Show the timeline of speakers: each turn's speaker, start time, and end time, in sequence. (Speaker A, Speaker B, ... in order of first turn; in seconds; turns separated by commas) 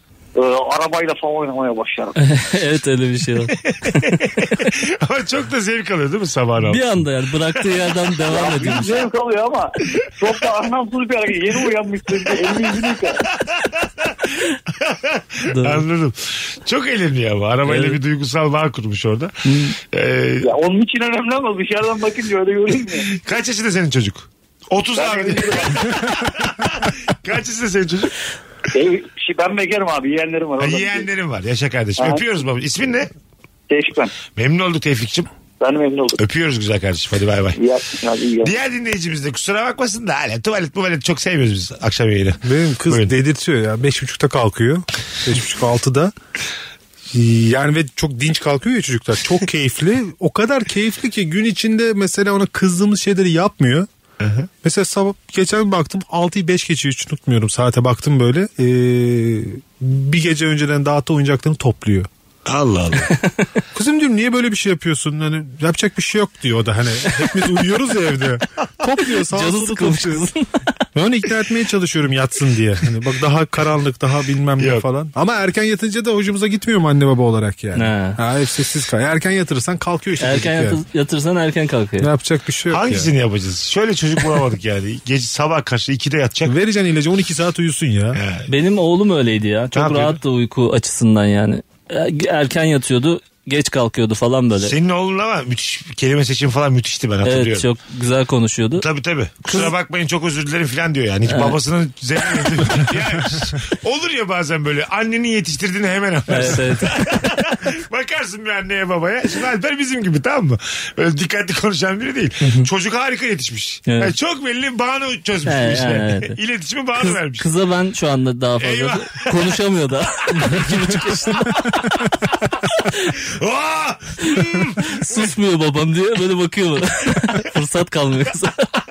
Speaker A: 0.4-2.2, Speaker B: 2.2-4.4, Speaker C: 3.6-6.9, Speaker B: 6.7-9.0, Speaker A: 8.3-13.2, Speaker C: 13.3-20.5, Speaker B: 15.4-15.8, Speaker B: 17.7-18.0, Speaker B: 19.4-19.8, Speaker A: 20.4-23.1, Speaker C: 23.1-28.1, Speaker A: 25.0-26.1, Speaker A: 28.7-31.1, Speaker C: 30.6-33.1, Speaker A: 33.7-34.1, Speaker C: 34.4-35.3, Speaker A: 35.6-36.2, Speaker C: 36.2-37.6, Speaker A: 37.6-38.5, Speaker C: 38.4-43.1, Speaker D: 42.4-46.1, Speaker D: 47.1-53.9, Speaker C: 54.2-54.5, Speaker D: 54.6-62.1, Speaker C: 62.5-63.1, Speaker D: 63.7-70.2, Speaker B: 69.1-70.7, Speaker D: 71.0-80.8, Speaker C: 74.6-74.8, Speaker B: 77.8-78.2, Speaker B: 80.2-82.1, Speaker D: 82.0-83.1, Speaker C: 82.7-86.5, Speaker D: 86.5-88.2, Speaker C: 88.1-88.5, Speaker B: 88.5-94.7, Speaker C: 89.8-90.2, Speaker C: 94.6-97.7, Speaker B: 97.2-98.8, Speaker C: 98.8-117.5, Speaker B: 101.3-101.6, Speaker B: 106.3-107.0, Speaker B: 112.4-112.7, Speaker B: 113.9-114.1, Speaker B: 115.5-116.4, Speaker B: 117.0-121.8, Speaker C: 118.6-119.5, Speaker C: 120.4-122.1, Speaker C: 123.1-125.3, Speaker B: 124.2-128.7